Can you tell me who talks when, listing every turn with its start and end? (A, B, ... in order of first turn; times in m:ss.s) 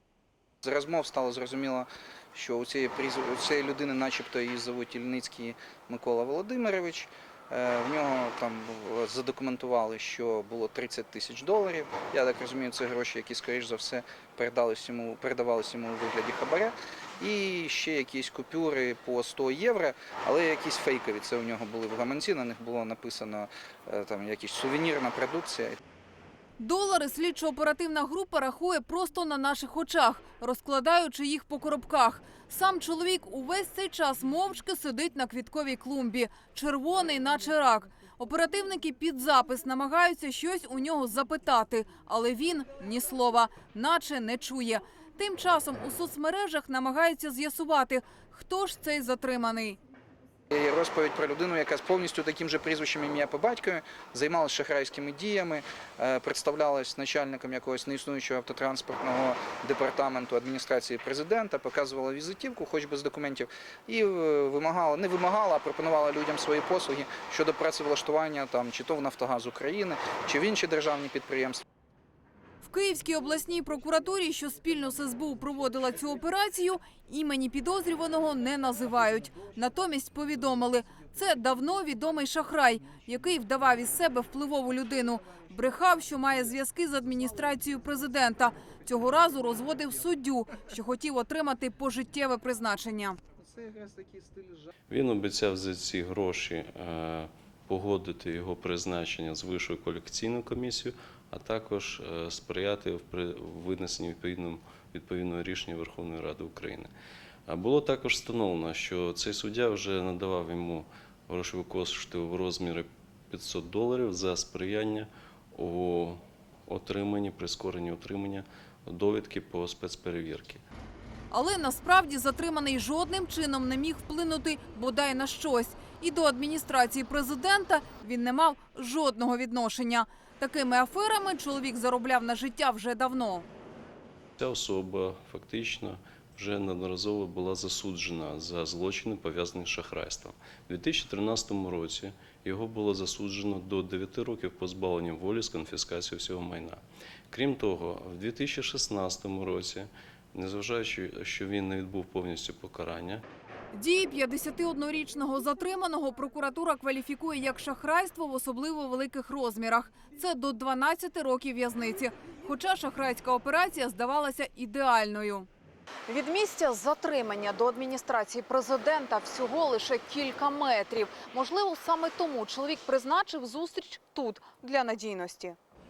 0:00.6-0:25.8 A
0:26.6-0:49.8 B
0:50.5-1:11.6 A
1:12.6-1:33.2 B
1:33.6-1:34.3 A
1:34.9-1:46.9 C
1:47.5-2:00.6 C
2:01.3-2:13.4 B
2:14.4-2:33.2 C
2:33.7-2:45.5 B
2:46.1-2:55.6 B